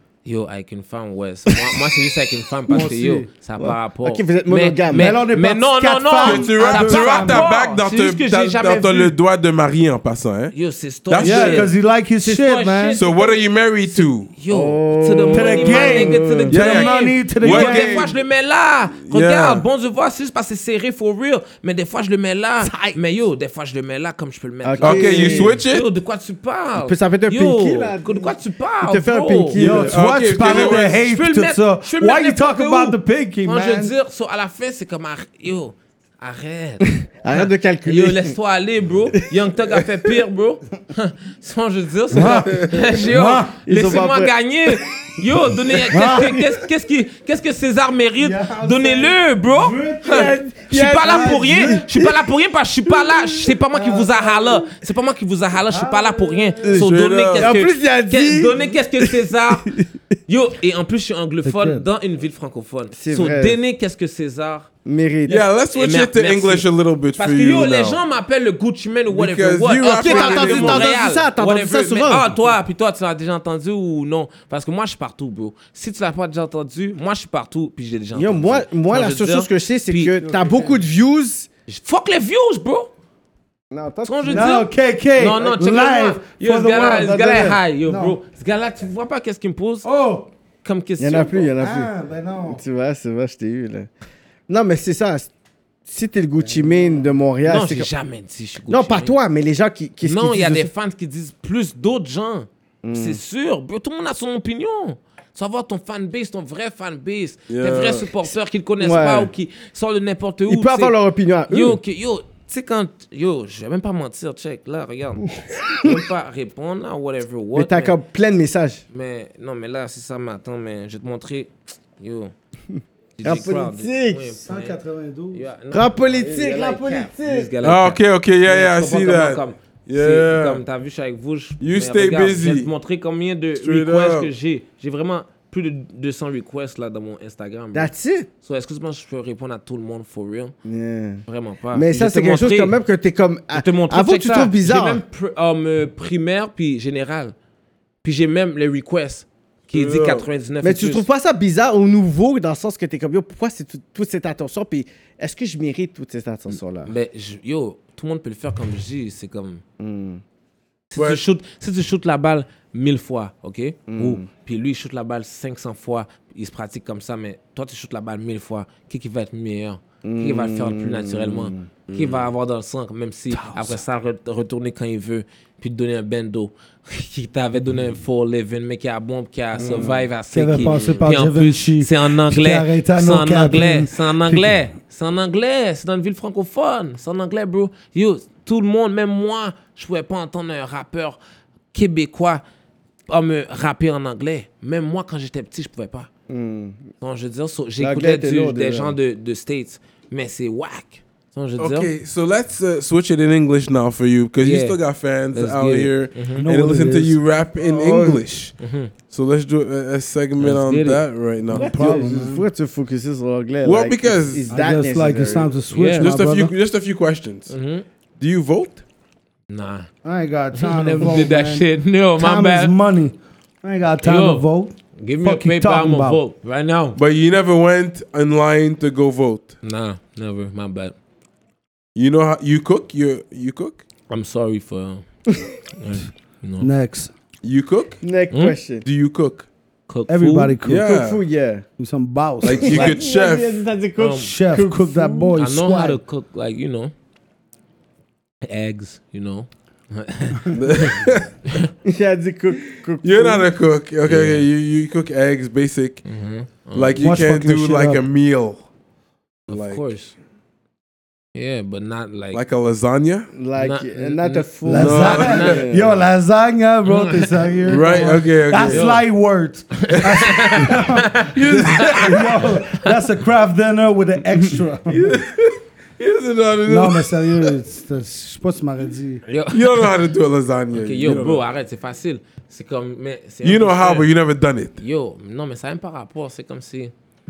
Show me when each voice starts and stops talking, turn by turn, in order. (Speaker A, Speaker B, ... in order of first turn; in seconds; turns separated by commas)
Speaker A: 0.2-9.1, Speaker B: 2.7-3.3, Speaker C: 3.6-5.2, Speaker B: 4.9-7.5, Speaker D: 6.2-10.5, Speaker A: 10.5-29.6, Speaker D: 11.1-11.7, Speaker B: 11.2-13.0, Speaker D: 12.9-14.3, Speaker C: 14.5-16.6, Speaker B: 15.3-18.1, Speaker D: 16.5-18.1, Speaker D: 19.0-19.6, Speaker C: 22.6-22.9, Speaker C: 24.6-25.6, Speaker D: 24.8-25.8, Speaker C: 26.8-30.0, Speaker B: 29.5-33.9, Speaker D: 29.6-30.9, Speaker A: 30.4-59.7, Speaker C: 37.0-38.3, Speaker B: 42.1-43.5, Speaker C: 43.6-44.8, Speaker B: 45.9-46.4, Speaker C: 46.0-46.4, Speaker B: 48.2-50.4, Speaker C: 50.0-52.3, Speaker B: 51.0-51.9, Speaker C: 52.9-54.7, Speaker B: 55.7-56.9, Speaker D: 56.7-57.5, Speaker C: 57.4-59.9, Speaker A: 60.3-64.7, Speaker B: 61.4-61.8, Speaker C: 62.9-63.6, Speaker C: 64.8-65.5, Speaker D: 65.3-68.0, Speaker A: 65.7-80.4, Speaker D: 69.1-70.9, Speaker C: 70.0-72.3, Speaker C: 78.1-81.5, Speaker B: 80.2-80.7, Speaker A: 81.7-82.9, Speaker C: 83.7-84.6, Speaker A: 84.0-89.9, Speaker B: 84.3-87.2, Speaker C: 86.9-87.6, Speaker B: 87.9-88.2, Speaker B: 89.8-90.3, Speaker A: 90.6-91.5, Speaker C: 91.0-91.9, Speaker B: 91.6-92.6, Speaker C: 92.4-93.9, Speaker C: 94.5-95.3, Speaker C: 95.9-97.9, Speaker B: 96.4-97.2, Speaker A: 97.4-99.2, Speaker C: 98.7-100.7, Speaker A: 100.0-110.9, Speaker C: 102.8-103.2, Speaker D: 107.5-108.1, Speaker C: 108.8-109.3, Speaker C: 110.5-111.8, Speaker A: 111.5-118.0, Speaker C: 115.6-116.0, Speaker C: 117.5-118.8, Speaker A: 118.9-122.3, Speaker C: 122.7-124.3, Speaker A: 123.2-124.8, Speaker B: 124.4-125.5, Speaker A: 125.3-137.9, Speaker C: 125.7-127.5, Speaker D: 127.6-130.6, Speaker D: 131.6-132.7, Speaker D: 133.6-134.3, Speaker C: 137.7-138.3, Speaker A: 138.4-140.5, Speaker C: 140.6-145.0, Speaker A: 141.3-142.7, Speaker A: 143.5-147.3, Speaker A: 148.0-151.1, Speaker D: 149.7-150.3, Speaker C: 150.6-156.9, Speaker A: 156.8-159.6, Speaker C: 159.8-160.2, Speaker A: 160.9-191.2, Speaker D: 160.9-161.2, Speaker C: 163.9-164.2, Speaker C: 170.0-171.7, Speaker D: 171.9-172.3, Speaker B: 173.3-173.8, Speaker C: 179.6-180.0, Speaker B: 180.3-184.5, Speaker D: 180.6-181.0, Speaker A: 191.7-192.4, Speaker A: 193.1-196.1, Speaker C: 196.3-196.9, Speaker A: 197.0-201.9, Speaker C: 197.8-198.9, Speaker D: 201.6-208.5, Speaker A: 204.4-204.8, Speaker A: 205.3-206.4, Speaker B: 206.4-207.2, Speaker C: 207.6-208.2, Speaker A: 208.6-208.9, Speaker D: 209.1-212.1, Speaker A: 210.4-211.0, Speaker B: 211.5-212.4, Speaker C: 211.5-215.5, Speaker D: 213.6-214.5, Speaker B: 214.5-216.5, Speaker A: 215.7-216.1, Speaker D: 216.0-217.5, Speaker A: 217.5-217.8, Speaker D: 218.2-218.8, Speaker A: 219.5-219.9, Speaker B: 220.0-221.7, Speaker A: 220.5-222.7, Speaker B: 222.2-226.2, Speaker A: 224.0-224.4, Speaker A: 225.0-227.0, Speaker D: 226.9-229.5, Speaker A: 229.6-230.9, Speaker D: 231.9-233.8, Speaker A: 234.1-235.1, Speaker A: 235.7-236.7, Speaker B: 236.6-237.1, Speaker D: 237.4-238.0, Speaker C: 238.0-238.8, Speaker A: 238.3-238.6, Speaker D: 238.8-239.4, Speaker A: 239.9-240.6, Speaker B: 240.1-240.9, Speaker D: 240.6-241.2, Speaker C: 240.8-241.6, Speaker B: 241.8-243.0, Speaker D: 242.4-243.6, Speaker C: 242.5-245.4, Speaker A: 244.0-244.3, Speaker B: 244.1-246.0, Speaker A: 245.3-246.9, Speaker A: 248.4-251.7, Speaker D: 250.5-251.3, Speaker C: 251.8-253.5, Speaker D: 253.0-256.0, Speaker A: 254.0-254.4, Speaker A: 256.0-257.0, Speaker D: 256.7-258.6, Speaker B: 256.9-258.0, Speaker A: 259.5-260.1, Speaker D: 259.5-259.8, Speaker A: 261.3-262.4, Speaker D: 262.3-263.3, Speaker C: 263.3-265.9, Speaker A: 263.6-264.5, Speaker B: 264.6-275.1, Speaker D: 264.7-265.6, Speaker A: 265.0-265.6, Speaker A: 266.9-267.4, Speaker D: 267.6-268.9, Speaker A: 268.7-269.0, Speaker A: 269.8-272.9, Speaker D: 271.3-272.5, Speaker D: 274.9-277.5, Speaker B: 276.7-279.2, Speaker A: 279.3-279.9, Speaker D: 279.5-281.4, Speaker A: 280.7-284.1, Speaker D: 283.4-284.8, Speaker A: 284.8-286.9